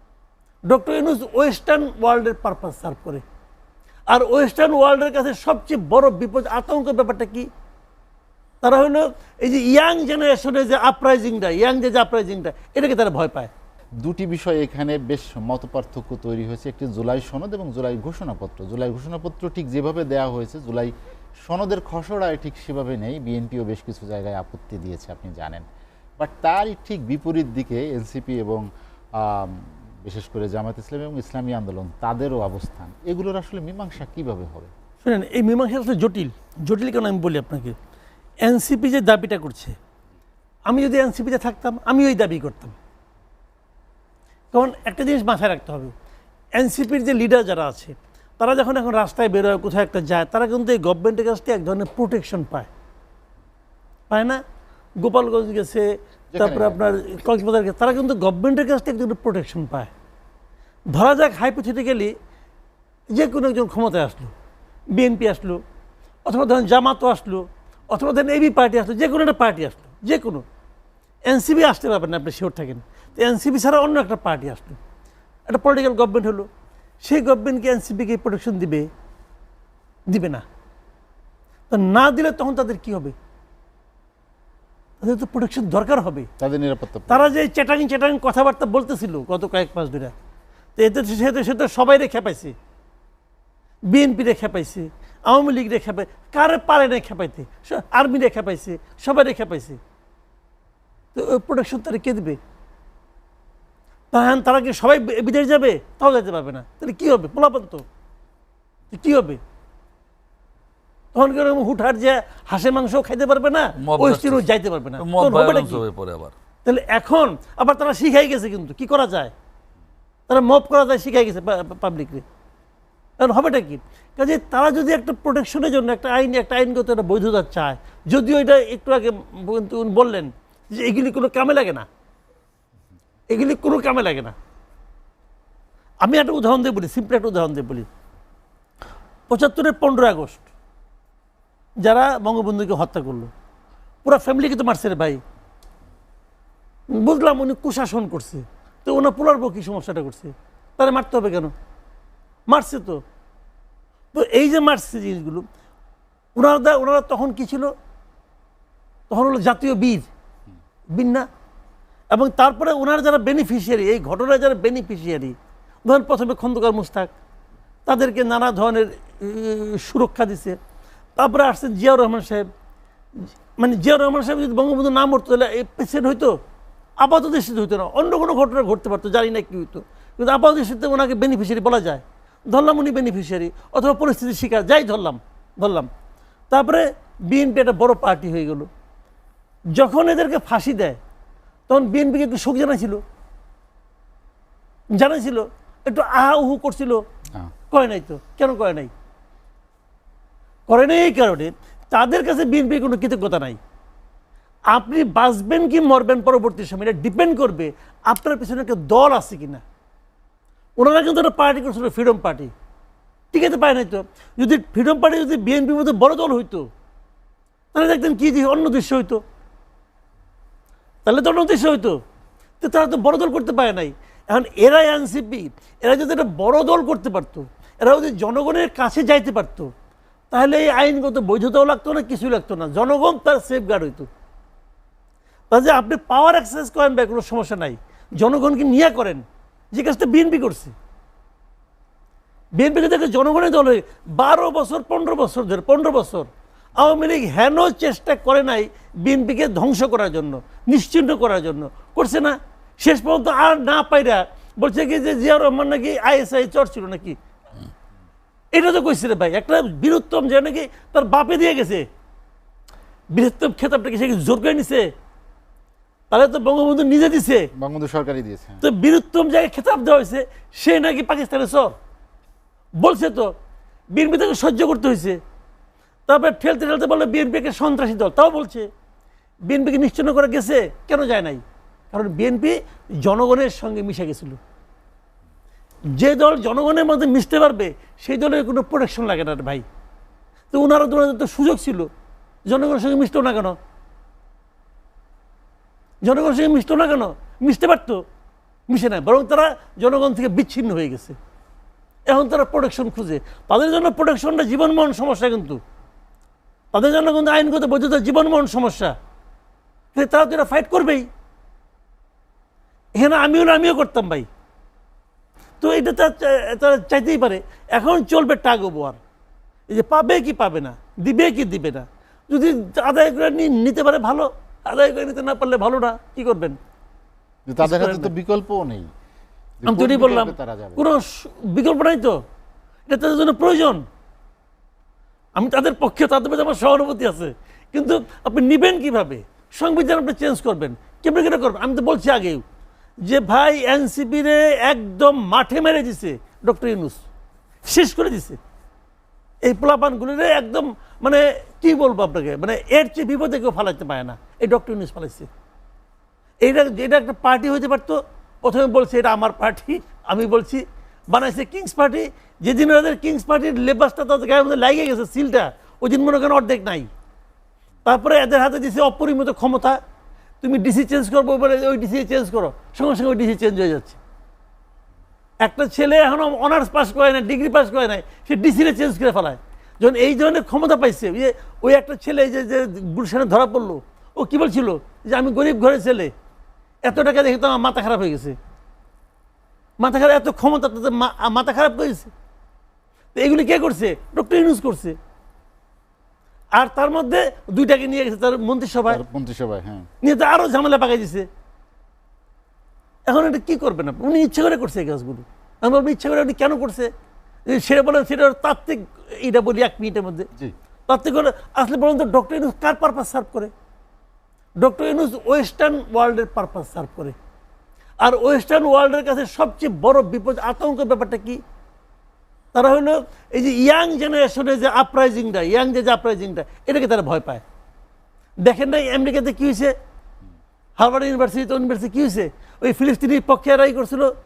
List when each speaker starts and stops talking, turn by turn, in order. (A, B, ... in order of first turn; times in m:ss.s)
0:00.7-0:03.2 A
0:04.1-0:07.5 A
0:08.6-0:13.5 A
0:14.0-0:20.9 B
0:21.5-0:25.6 B
0:26.2-0:28.6 B
0:29.2-0:34.7 B
0:35.0-0:37.8 A
0:38.4-0:39.8 A
0:40.7-0:42.8 A
0:44.5-0:45.9 A
0:46.6-0:52.7 A
0:54.1-0:54.4 A
0:55.0-0:59.9 A
0:56.3-0:57.0 B
1:00.9-1:02.1 A
1:03.1-1:04.3 A
1:04.9-1:05.6 A
1:06.3-1:10.4 A
1:11.3-1:14.8 A
1:15.5-1:16.5 A
1:17.0-1:18.9 A
1:20.1-1:20.4 A
1:21.7-1:23.1 A
1:25.0-1:26.3 A
1:26.4-1:27.3 B
1:27.1-1:30.1 A
1:30.8-1:32.6 A
1:33.9-1:39.8 A
1:41.1-1:42.4 A
1:44.1-1:47.8 A
1:48.9-1:49.4 A
1:51.1-1:55.8 A
1:53.8-1:54.5 C
1:55.0-1:56.3 C
1:56.6-1:59.3 A
2:00.3-2:02.2 A
2:03.2-2:11.9 A
2:13.3-2:14.3 A
2:16.0-2:17.9 A
2:19.3-2:20.5 A
2:21.8-2:23.3 A
2:24.0-2:25.2 A
2:26.9-2:31.5 A
2:32.5-2:33.0 A
2:34.1-2:35.5 A
2:36.4-2:37.7 A
2:39.1-2:40.1 A
2:40.9-2:41.3 A
2:42.1-2:47.1 A
2:47.8-2:50.6 A
2:51.2-2:52.5 A
2:53.2-2:56.4 A
2:57.0-3:05.9 A
3:06.5-3:08.7 A
3:09.7-3:11.0 A
3:11.7-3:13.0 A
3:14.9-3:17.0 A
3:17.7-3:18.9 A
3:20.7-3:23.6 A
3:24.7-3:29.6 A
3:30.8-3:32.5 A
3:33.3-3:36.7 A
3:37.7-3:39.2 A
3:41.0-3:42.0 A
3:42.6-3:49.7 A
3:50.3-3:54.1 A
3:55.5-4:00.7 A
4:02.6-4:17.2 A
4:18.5-4:21.9 A
4:23.1-4:24.9 A
4:26.1-4:27.5 A
4:27.6-4:28.6 B
4:28.6-4:31.8 A
4:32.8-4:33.3 A
4:33.9-4:35.2 A
4:36.1-4:38.7 A
4:39.5-4:44.4 A
4:46.0-4:49.6 A
4:50.5-4:51.9 A
4:52.5-4:53.6 A
4:56.0-4:58.0 A
4:58.7-5:01.2 A
5:02.1-5:05.6 A
5:06.7-5:09.0 A
5:09.9-5:11.1 A
5:13.0-5:14.3 A
5:15.6-5:19.0 A
5:19.7-5:26.6 A
5:27.5-5:28.9 B
5:27.6-5:28.1 A
5:29.6-5:30.8 B
5:29.6-5:32.2 A
5:32.9-5:33.8 A
5:35.4-5:42.4 A
5:43.0-5:47.0 A
5:47.7-5:48.4 A
5:49.4-5:55.3 A
5:56.4-6:06.9 A
6:07.8-6:09.8 A
6:10.4-6:14.0 A
6:15.4-6:26.1 A
6:26.8-6:28.4 A
6:29.8-6:32.1 A
6:33.2-6:35.0 A
6:36.6-6:39.0 A
6:38.9-6:39.9 B
6:40.0-6:41.3 A
6:43.1-6:46.9 A
6:47.5-6:50.3 A
6:50.9-6:53.5 A
6:54.6-6:57.2 A
6:58.0-7:01.4 A
7:02.5-7:07.4 A
7:08.4-7:09.8 A
7:10.8-7:14.1 A